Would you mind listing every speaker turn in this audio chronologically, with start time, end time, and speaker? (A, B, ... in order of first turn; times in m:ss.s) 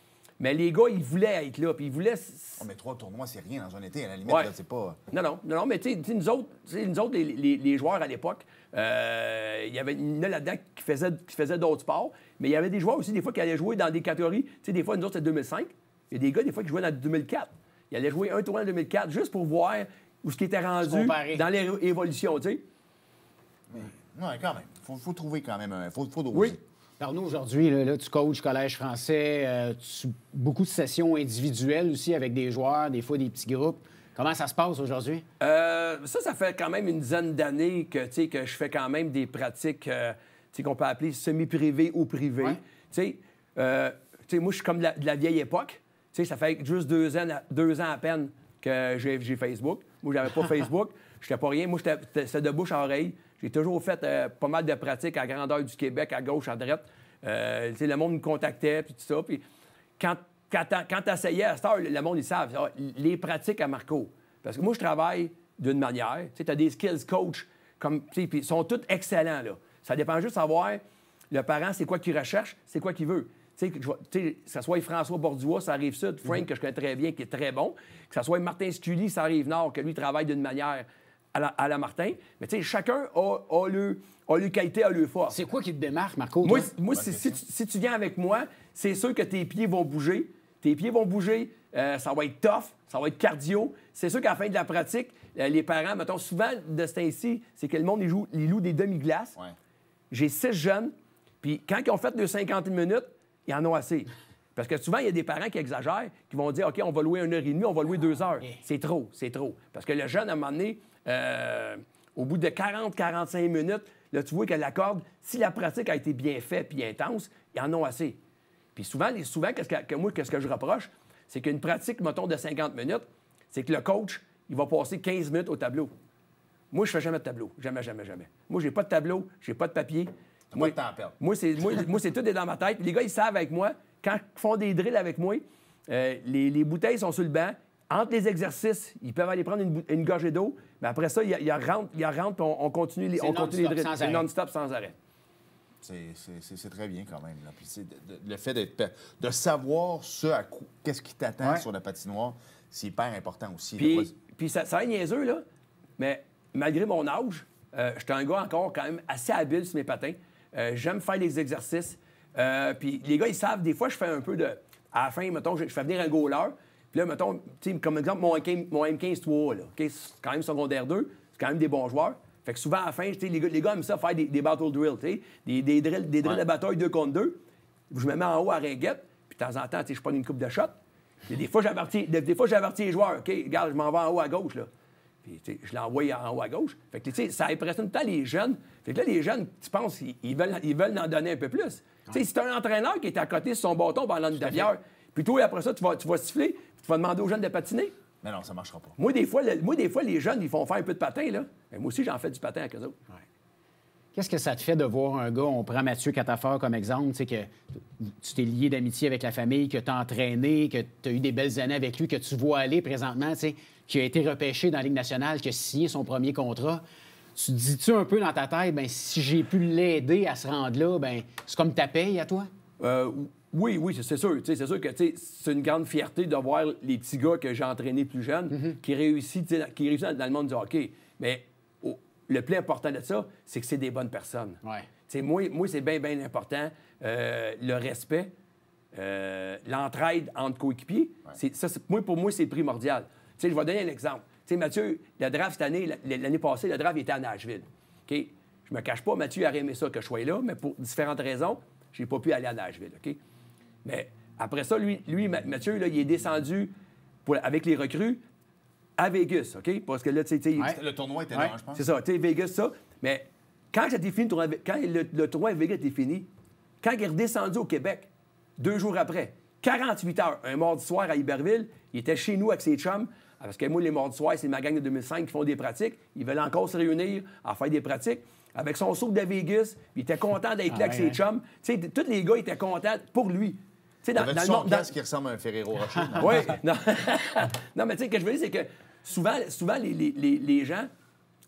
0:00.4-0:02.6 A
0:02.6-0:05.0 B
0:05.1-0:22.6 A
0:20.8-0:21.4 C
0:23.7-0:26.6 B
0:27.0-0:35.2 C
0:35.4-0:59.4 A
1:00.0-1:25.4 A
1:25.3-1:26.7 C
1:26.4-1:39.4 A
1:26.9-1:27.4 B
1:40.1-1:58.2 A
1:58.7-2:05.9 A
2:06.7-2:24.9 A
2:10.5-2:11.2 B
2:23.2-2:24.3 C
2:25.8-2:34.1 B
2:33.8-2:35.4 A
2:36.0-2:57.4 A
2:57.9-3:00.7 A
3:01.3-3:04.7 A
3:05.2-3:17.9 A
3:18.2-3:19.0 B
3:19.0-3:23.0 A
3:24.1-3:36.8 C
3:37.3-3:42.5 C
3:42.8-3:58.3 A
3:54.6-3:54.9 C
3:58.9-4:13.2 A
4:13.8-4:16.7 A
4:17.2-4:18.2 A
4:19.0-4:20.8 A
4:20.6-4:21.8 B
4:21.7-4:26.3 A
4:26.8-4:44.9 A
4:40.7-4:41.2 C
4:44.1-4:46.6 B
4:46.2-4:50.9 A